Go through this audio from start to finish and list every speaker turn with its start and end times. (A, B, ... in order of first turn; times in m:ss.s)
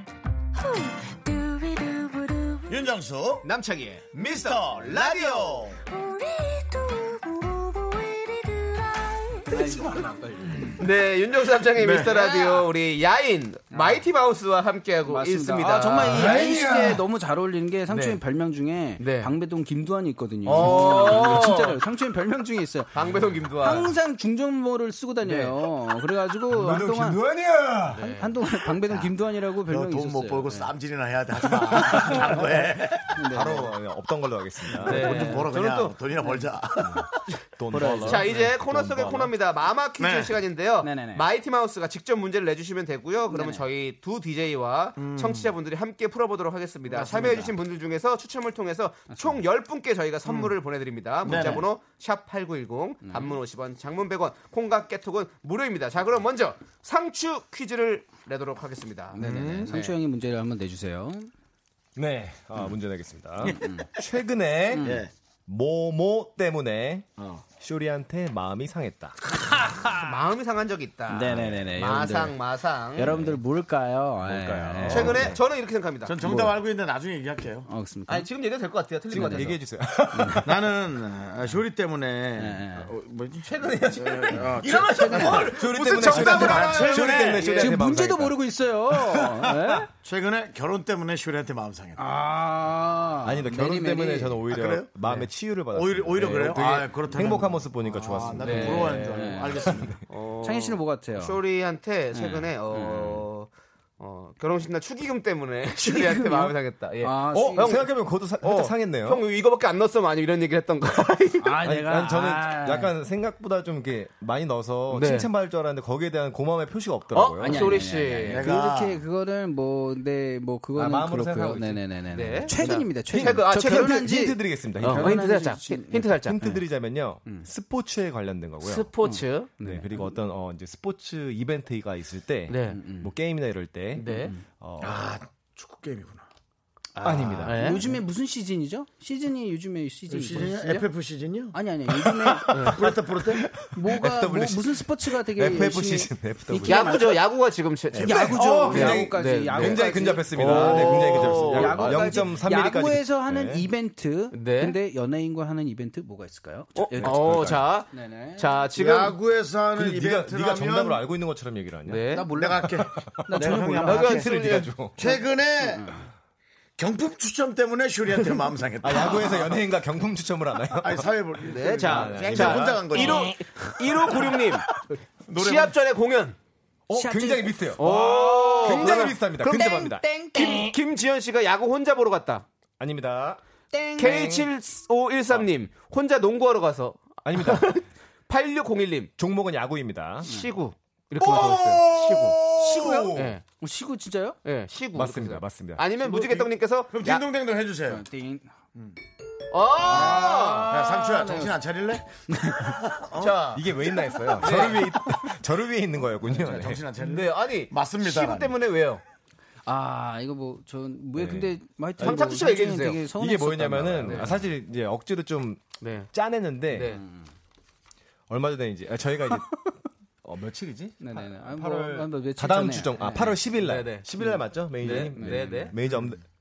0:00.5-0:02.9 A
0:02.7-0:03.5 B
0:03.4-0:05.7 C
0:04.1-0:05.8 B
0:05.8-0:09.7 A
0:09.5-0:10.8 D
0:10.8-0:16.4 C
0:11.8-0:12.4 B
0:13.7-0:14.0 D
0:15.0-0:23.0 D
0:16.2-0:17.0 B
0:16.3-0:16.9 E
0:17.9-0:18.2 C
0:19.0-0:19.3 C
0:20.4-0:21.8 C
0:22.9-0:23.9 C
0:23.5-0:27.2 D
0:25.2-0:25.5 C
0:26.5-0:28.0 E
0:27.9-0:28.3 C
0:28.0-0:30.7 D
0:29.6-0:33.2 B
0:31.7-0:32.6 D
0:31.8-0:32.2 E
0:33.1-0:33.7 D
0:33.2-0:35.3 E
0:34.7-0:37.1 B
0:34.8-0:35.5 D
0:34.8-0:36.0 C
0:37.6-0:39.3 E
0:37.7-0:38.4 D
0:38.0-0:59.9 C
0:40.0-0:40.4 B
0:40.8-0:41.2 D
0:43.3-0:43.6 D
0:45.0-0:45.5 B
0:46.9-0:47.5 D
0:50.2-0:50.5 B
0:51.2-0:51.6 B
0:51.3-0:51.6 D
0:53.0-0:53.3 D
0:59.1-1:01.3 D
0:59.2-0:59.7 B
1:02.0-1:09.1 E
1:03.4-1:03.9 D
1:04.7-1:05.0 D
1:04.8-1:05.1 B
1:07.2-1:07.4 B
1:09.4-1:10.1 D
1:09.9-1:13.3 C
1:11.1-1:12.4 D
1:11.3-1:11.7 E
1:12.9-1:15.3 D
1:14.3-1:15.4 E
1:14.6-1:15.4 B
1:14.9-1:16.2 C
1:16.0-1:17.7 B
1:16.2-1:16.6 D
1:17.7-1:18.3 D
1:18.1-1:19.6 C
1:19.1-1:20.6 E
1:19.2-1:19.5 D
1:20.1-1:20.4 D
1:20.4-1:27.6 B
1:22.4-1:22.9 D
1:23.4-1:27.8 C
1:24.9-1:25.4 D
1:25.4-1:28.4 E
1:26.2-1:26.6 D
1:27.6-1:29.9 D
1:30.0-1:32.0 B
1:32.0-1:34.4 D
1:33.2-1:38.8 E
1:34.5-1:34.9 B
1:35.0-1:35.3 D
1:35.7-1:39.9 B
1:38.4-1:39.9 D
1:38.4-1:39.0 C
1:39.7-1:40.0 E
1:40.1-1:51.6 C
1:40.4-1:41.4 D
1:42.1-1:43.2 D
1:45.8-1:47.8 D
1:47.3-1:49.2 E
1:51.4-1:52.9 D
1:51.6-1:57.9 E
1:54.9-1:55.3 C
1:57.1-1:58.4 C
1:57.4-2:06.6 D
1:58.2-1:59.0 B
2:00.7-2:01.8 E
2:02.1-2:04.0 C
2:02.5-2:05.2 E
2:04.8-2:06.4 C
2:06.1-2:08.9 E
2:08.6-2:09.5 C
2:09.0-2:10.1 D
2:09.6-2:15.0 E
2:12.5-2:12.8 C
2:12.7-2:13.1 D
2:14.0-2:14.3 C
2:14.0-2:14.4 D
2:14.8-2:16.2 B
2:17.0-2:20.6 D
2:17.0-2:17.8 E
2:17.1-2:17.4 B
2:17.4-2:17.8 C
2:20.1-2:21.6 B
2:20.6-2:20.8 C
2:21.5-2:22.7 D
2:22.1-2:27.1 E
2:22.6-2:23.5 B
2:23.7-2:27.2 D
2:26.6-2:32.2 C
2:27.9-2:28.9 B
2:28.0-2:38.6 D
2:28.1-2:33.7 E
2:30.4-2:31.6 B
2:34.3-2:34.8 C
2:36.8-2:39.2 C
2:36.9-2:37.6 E
2:38.7-2:41.0 B
2:39.7-2:42.2 E
2:41.9-2:42.3 C
2:42.1-2:44.3 D
2:42.3-2:44.3 B
2:43.8-2:44.7 C
2:44.1-2:45.0 E
2:45.0-2:45.9 B
2:45.0-2:46.1 D
2:46.8-2:49.5 B
2:48.8-2:51.1 E
2:50.8-2:53.3 B
2:51.4-2:54.7 C
2:51.8-2:53.3 E
2:55.3-2:55.7 B
2:55.3-2:56.4 C
2:56.9-3:00.1 E
2:56.9-3:00.8 D
2:57.8-2:59.2 C
3:00.3-3:02.4 C
3:02.8-3:03.4 E
3:03.7-3:04.4 D
3:04.0-3:09.1 C
3:04.0-3:04.4 E
3:07.2-3:07.8 E
3:09.2-3:10.3 E
3:10.2-3:12.4 C
3:11.2-3:13.1 B
3:11.2-3:13.3 E
3:12.6-3:14.4 D
3:13.1-3:13.4 C
3:14.4-3:17.2 C
3:14.9-3:15.8 E
3:16.0-3:18.0 B
3:17.9-3:18.5 D
3:19.5-3:20.8 C
3:19.8-3:21.6 D
3:20.6-3:23.4 B
3:22.3-3:22.8 D
3:23.2-3:23.6 C
3:23.5-3:26.8 E
3:24.4-3:24.9 C
3:26.2-3:28.6 B
3:27.0-3:29.0 C
3:29.6-3:34.4 D
3:31.2-3:32.2 E
3:32.0-3:33.0 C
3:33.0-3:37.0 E
3:35.8-3:36.1 C
3:36.7-3:37.0 C
3:36.9-3:37.2 D
3:38.3-3:39.7 E
3:40.2-3:46.2 E
3:41.0-3:43.4 D
3:43.6-3:44.1 C
3:44.2-3:45.7 D
3:44.8-3:45.8 C